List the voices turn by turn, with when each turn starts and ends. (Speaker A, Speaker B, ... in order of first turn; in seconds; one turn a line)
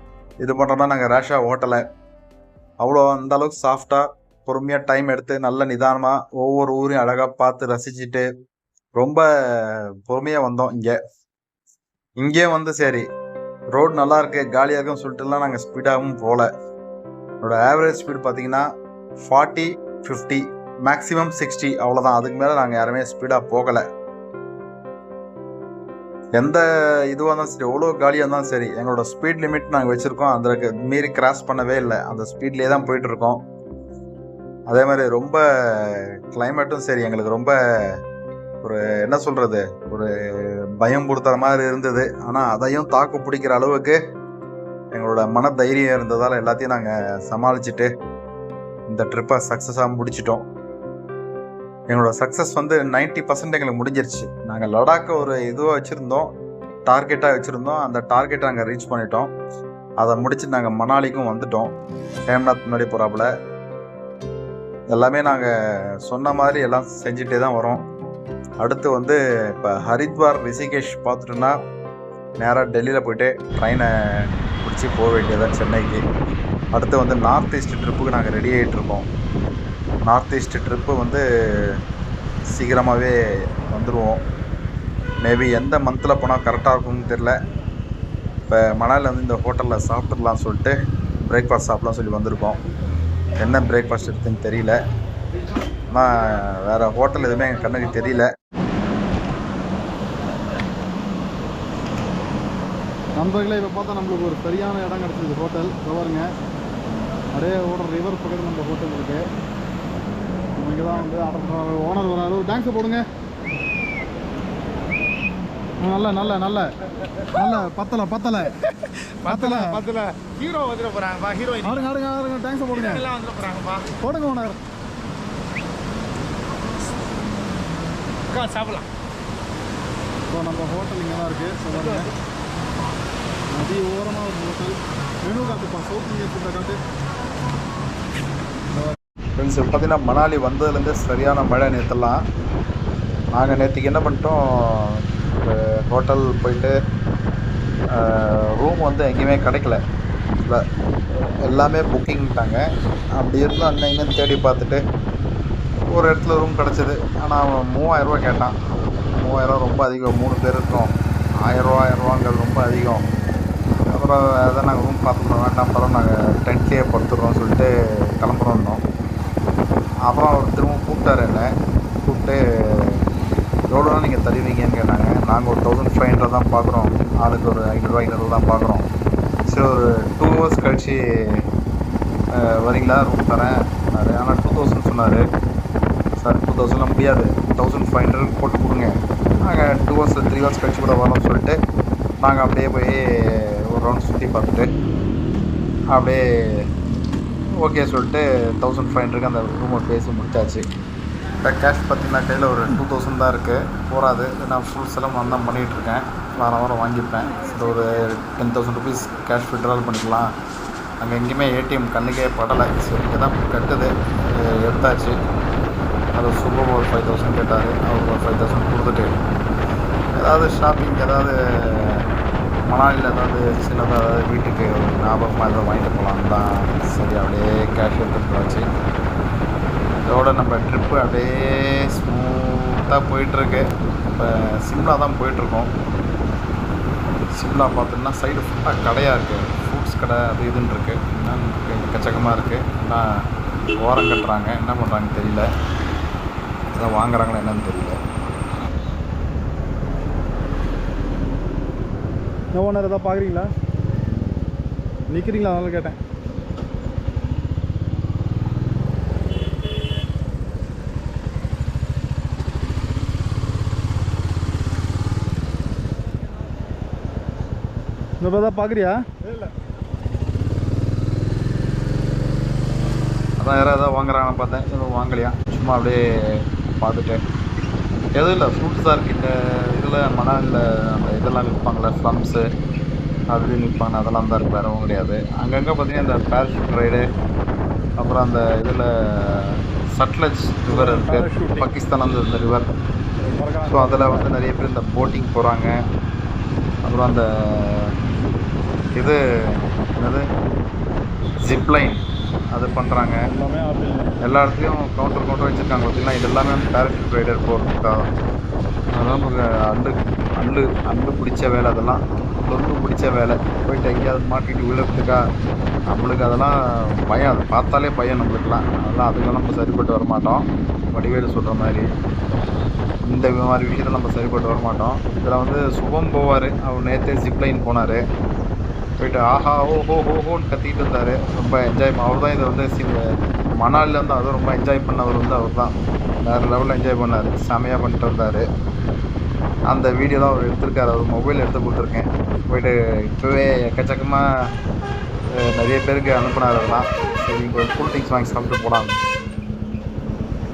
Speaker A: 0.4-1.8
Speaker A: 2.8-8.3
Speaker A: 9.0-11.0
Speaker A: 12.2-13.0
Speaker A: 13.7-16.5
Speaker A: 17.4-18.7
Speaker A: 19.2-23.8
Speaker A: 26.4-33.4
Speaker A: 34.7-37.5
Speaker A: 38.6-44.0
Speaker A: 44.9-47.9
Speaker A: 48.9-50.4
Speaker A: 51.9-56.3
Speaker A: 56.9-59.3
Speaker A: 60.0-61.7
Speaker A: 62.3-63.3
Speaker A: 64.9-65.5
Speaker A: 66.0-67.8
Speaker A: 68.6-71.5
Speaker A: 72.4-76.0
Speaker A: 76.7-79.1
Speaker A: 80.1-81.8
Speaker A: 82.5-83.2
Speaker A: 83.7-84.2
Speaker A: 85.2-87.3
Speaker A: 88.5-92.6
Speaker A: 93.4-94.8
Speaker A: 95.9-98.3
Speaker B: 103.2-106.2
Speaker B: 107.3-109.2
Speaker B: 110.6-113.0
Speaker B: 115.8-116.7
Speaker B: 117.4-118.5
Speaker C: 119.2-121.9
Speaker B: 119.3-119.8
Speaker B: 121.6-123.1
Speaker C: 122.7-124.0
Speaker B: 124.0-124.6
Speaker C: 128.3-128.9
Speaker B: 130.3-132.1
Speaker C: 131.8-132.1
Speaker B: 133.5-136.8
Speaker A: 139.4-142.2
Speaker A: 143.3-146.7
Speaker A: 147.9-149.8
Speaker A: 151.4-152.6
Speaker A: 153.2-154.8
Speaker A: 155.9-158.6
Speaker A: 159.2-160.9
Speaker A: 161.4-163.0
Speaker A: 163.9-168.8
Speaker A: 170.1-171.5
Speaker A: 172.1-173.0
Speaker A: 173.7-178.9
Speaker A: 179.5-181.4
Speaker A: 182.4-185.2
Speaker A: 186.2-188.9
Speaker A: 189.5-191.6
Speaker A: 192.2-194.7
Speaker A: 195.9-196.6
Speaker A: 197.6-200.6
Speaker A: 201.4-210.3
Speaker A: 211.0-215.2
Speaker A: 216.2-219.1
Speaker A: 220.2-222.0
Speaker A: 222.7-228.7
Speaker A: 230.0-235.7
Speaker A: 237.3-243.0
Speaker A: 243.8-245.5
Speaker A: 246.7-248.0
Speaker B: 252.5-253.5
Speaker B: 255.1-256.0
Speaker B: 268.2-269.0
Speaker A: 273.4-277.2
Speaker A: 278.2-282.4
Speaker A: 283.3-287.1
Speaker A: 288.0-292.8
Speaker B: 290.7-291.6
Speaker B: 293.3-294.2
Speaker A: 293.7-295.8
Speaker A: 296.9-297.9
Speaker A: 299.9-300.3
Speaker A: 301.5-302.0
Speaker A: 302.5-303.3
Speaker B: 303.3-304.1
Speaker A: 304.2-308.0
Speaker A: 309.0-315.2
Speaker A: 315.9-321.9
Speaker A: 323.1-328.0
Speaker A: 329.0-333.0
Speaker A: 333.6-335.7
Speaker A: 336.2-338.4
Speaker A: 339.7-344.2
Speaker A: 345.4-348.9